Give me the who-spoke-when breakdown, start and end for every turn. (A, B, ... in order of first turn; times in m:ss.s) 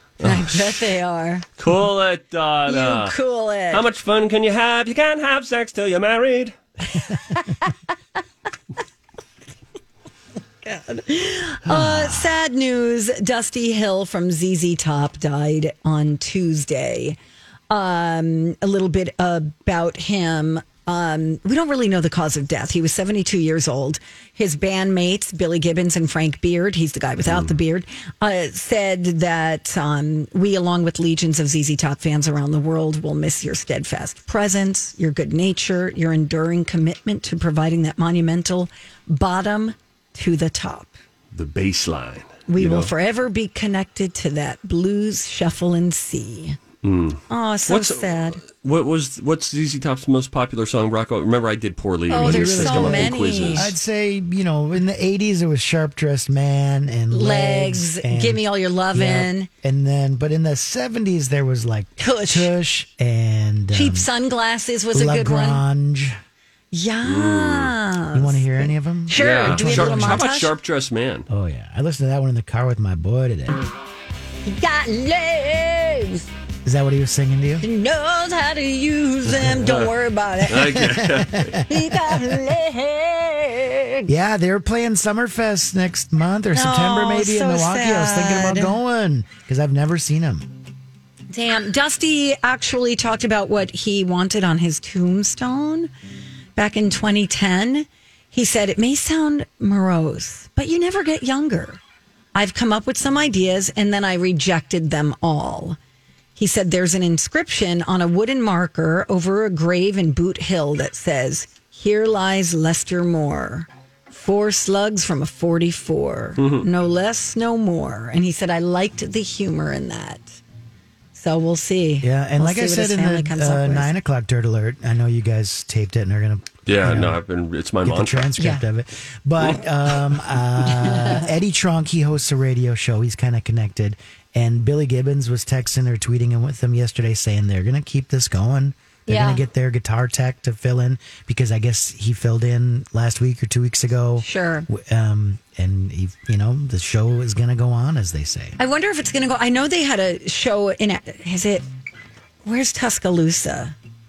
0:00.2-0:00.8 A
0:00.2-0:01.4 B
0:01.6-0:03.2 A
0:02.7-0:03.8 B
0:03.7-0:06.6 A
0:10.6-0:17.2 B
0:17.7-0:41.0 B
0:27.2-0:27.5 A
0:41.3-0:42.9 A
0:42.5-0:46.6 B
0:46.8-0:53.7 A
0:47.3-0:48.4 B
0:52.1-0:53.7 B
0:52.2-1:04.1 C
0:57.1-0:59.5 B
1:02.0-1:02.6 B
1:03.7-1:05.6 B
1:04.9-1:06.2 C
1:06.7-1:10.5 B
1:07.0-1:07.7 A
1:08.1-1:10.3 C
1:09.2-1:11.3 A
1:11.3-1:13.6 C
1:14.4-1:16.3 B
1:16.6-1:17.6 C
1:17.6-1:20.8 B
1:19.3-1:19.9 A
1:20.5-1:21.7 A
1:20.7-1:21.6 C
1:21.7-1:24.1 B
1:24.1-1:30.5 C
1:26.5-1:28.7 B
1:31.3-1:35.9 B
1:36.6-1:41.8 B
1:42.3-1:45.8 B
1:46.4-2:00.4 B
1:56.4-1:56.7 A
2:01.1-2:03.9 B
2:02.0-2:07.2 C
2:06.6-2:08.3 A
2:07.8-2:28.6 C
2:08.4-2:08.6 B
2:10.8-2:11.2 B
2:19.1-2:19.4 B
2:24.2-2:24.7 B
2:28.6-2:31.6 B
2:32.4-2:33.7 B